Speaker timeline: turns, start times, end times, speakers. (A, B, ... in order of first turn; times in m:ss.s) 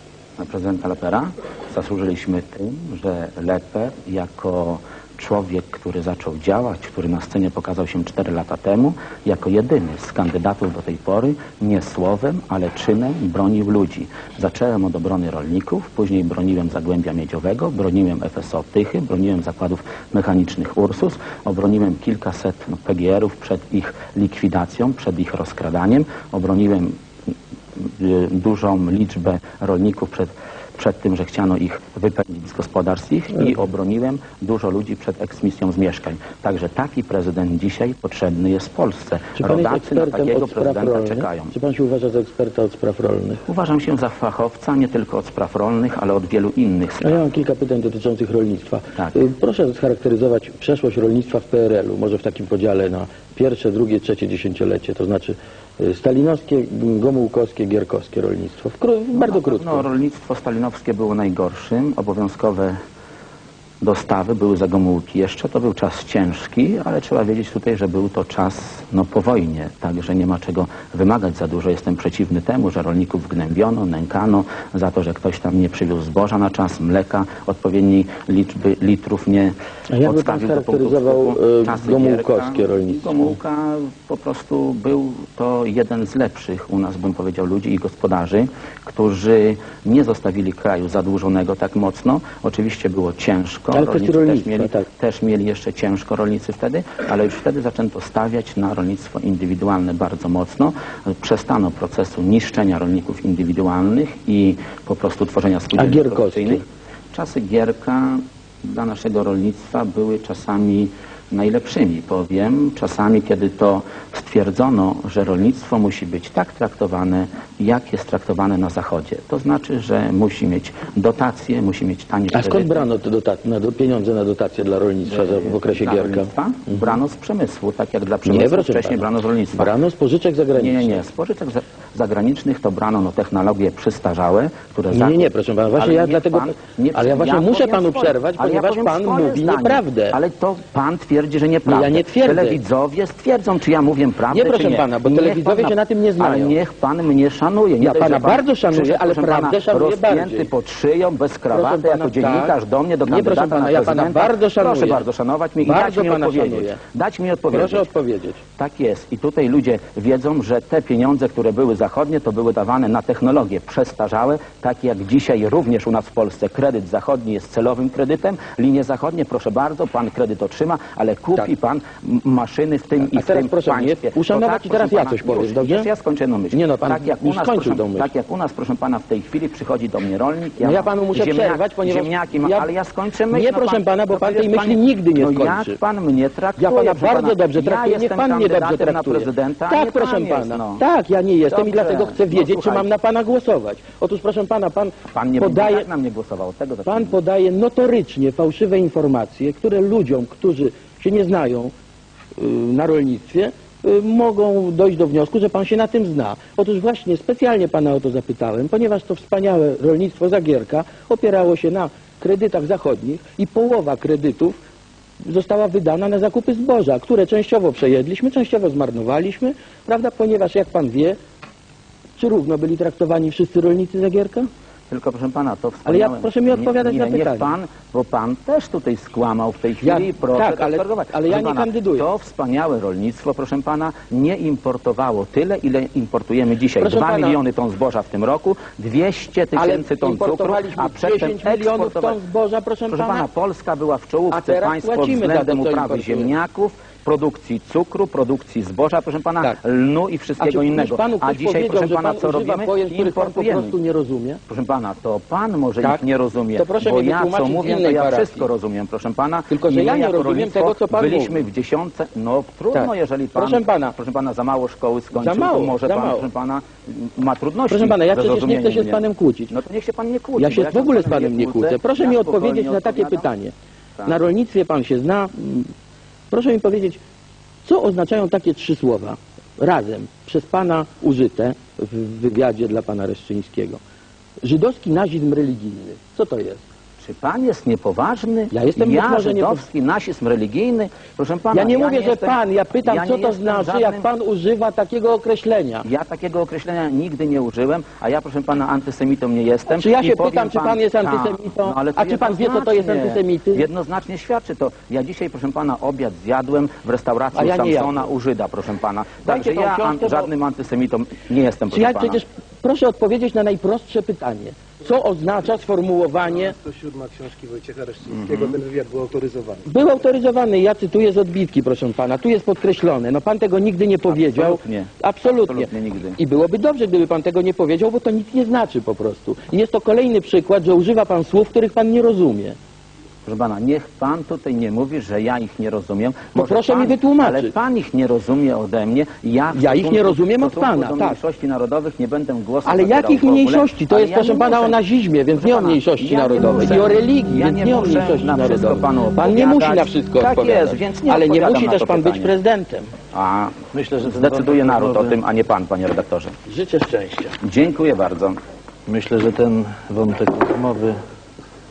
0:00.4-0:26.9 A
0:27.8-0:41.5 A
0:39.4-0:43.4 B
0:43.4-0:47.2 A
0:47.0-0:59.8 B
0:59.1-1:02.8 A
1:03.8-2:02.8 A
1:19.9-1:23.4 B
1:33.7-1:34.8 B
1:45.7-1:46.6 B
2:02.3-2:07.0 B
2:05.0-2:09.7 A
2:08.2-2:11.0 B
2:10.5-2:37.9 A
2:14.9-2:20.2 B
2:21.6-2:22.6 B
2:24.3-2:26.6 B
2:27.8-2:30.5 B
2:31.5-2:32.5 B
2:33.0-2:35.0 B
2:35.6-2:36.8 B
2:37.5-2:38.4 B
2:38.6-3:10.8 A
2:53.0-2:55.9 B
2:56.5-2:58.1 B
3:00.6-3:02.7 B
3:03.3-3:05.8 B
3:06.6-3:15.8 B
3:11.4-3:12.9 A
3:15.1-3:17.2 A
3:16.9-3:21.7 B
3:22.4-3:34.6 B
3:35.2-3:41.2 B
3:42.2-3:44.5 B
3:44.9-4:02.2 A
3:45.8-3:47.5 B
3:49.8-3:52.1 B
3:56.8-3:57.4 B
3:59.5-4:03.2 B
4:02.9-4:13.8 A
4:04.3-4:06.3 B
4:10.4-4:14.4 B
4:14.5-4:33.3 A
4:16.6-4:18.5 B
4:19.5-4:21.4 B
4:22.7-4:23.9 B
4:25.1-4:26.2 B
4:27.7-4:29.5 B
4:30.4-4:33.5 B
4:34.0-4:35.7 B
4:36.3-4:37.0 B
4:37.6-4:43.8 B
4:44.4-4:46.6 B
4:47.0-4:54.1 A
4:48.5-4:49.7 B
4:51.5-4:55.8 B
4:55.8-5:12.2 A
4:59.7-5:03.7 B
5:07.3-5:08.1 B
5:09.2-5:10.3 B
5:11.7-5:16.6 B
5:16.4-5:19.7 C
5:18.1-5:18.6 A
5:19.6-5:32.6 B
5:24.1-5:26.2 A
5:33.2-5:44.8 A
5:36.3-5:37.5 B
5:39.5-5:41.2 B
5:42.6-5:52.9 B
5:45.3-5:52.3 A
5:53.1-5:56.3 A
5:53.7-5:55.1 D
5:56.5-5:57.4 B
5:57.4-5:58.4 A
5:58.9-6:01.0 D